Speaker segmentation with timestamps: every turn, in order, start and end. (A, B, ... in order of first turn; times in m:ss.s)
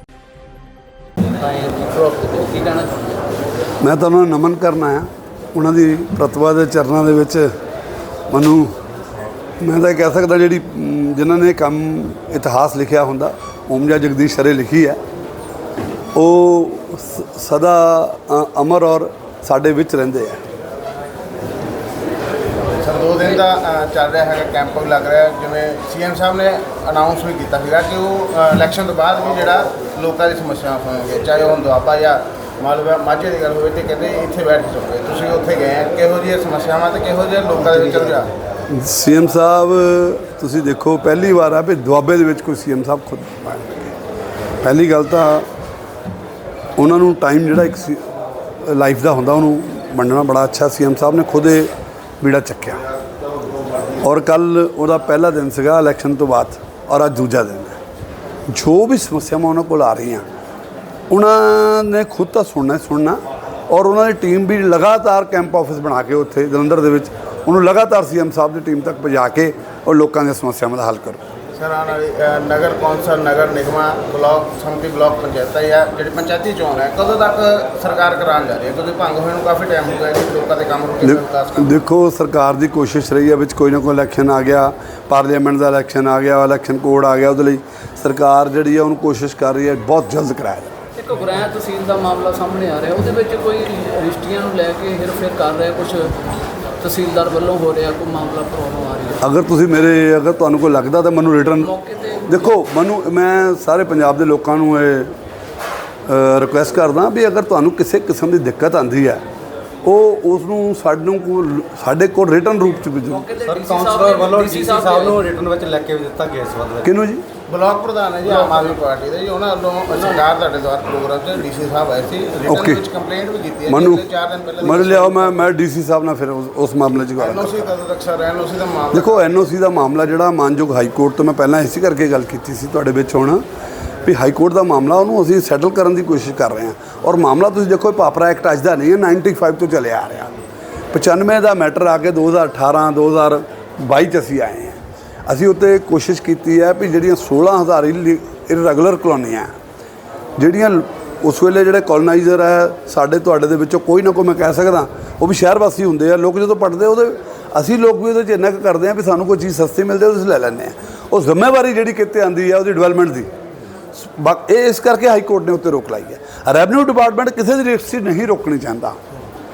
0:01.3-0:03.0 A
0:03.8-0:07.5 B
0:08.3-0:08.8 B
0:09.6-0:15.0 B
0:16.1-0:20.4 B
0:22.7-0:38.3 C
0:38.7-0:43.9 B
0:44.6-0:45.5 B
0:46.8-0:48.0 B
0:48.6-0:52.8 B
0:54.0-0:57.8 B
0:58.5-1:00.2 B
1:01.1-1:11.2 B
1:11.6-1:21.7 C
1:21.0-1:30.7 B
1:31.0-1:36.1 A
1:36.8-1:39.2 A
1:39.2-1:41.7 B
1:41.6-1:42.5 A
1:42.3-1:45.1 B
1:46.1-1:49.2 B
1:49.8-1:53.2 B
1:53.1-1:55.2 A
1:53.4-1:56.9 D
1:56.8-1:57.2 B
1:57.5-2:05.4 C
1:58.2-1:58.8 A
1:59.9-2:00.3 A
2:02.4-2:02.8 B
2:03.7-2:04.0 B
2:04.6-2:07.7 B
2:07.2-2:09.3 C
2:08.9-2:13.4 B
2:14.0-2:20.3 B
2:20.9-2:29.5 B
2:30.4-2:43.3 B
2:43.9-2:49.0 B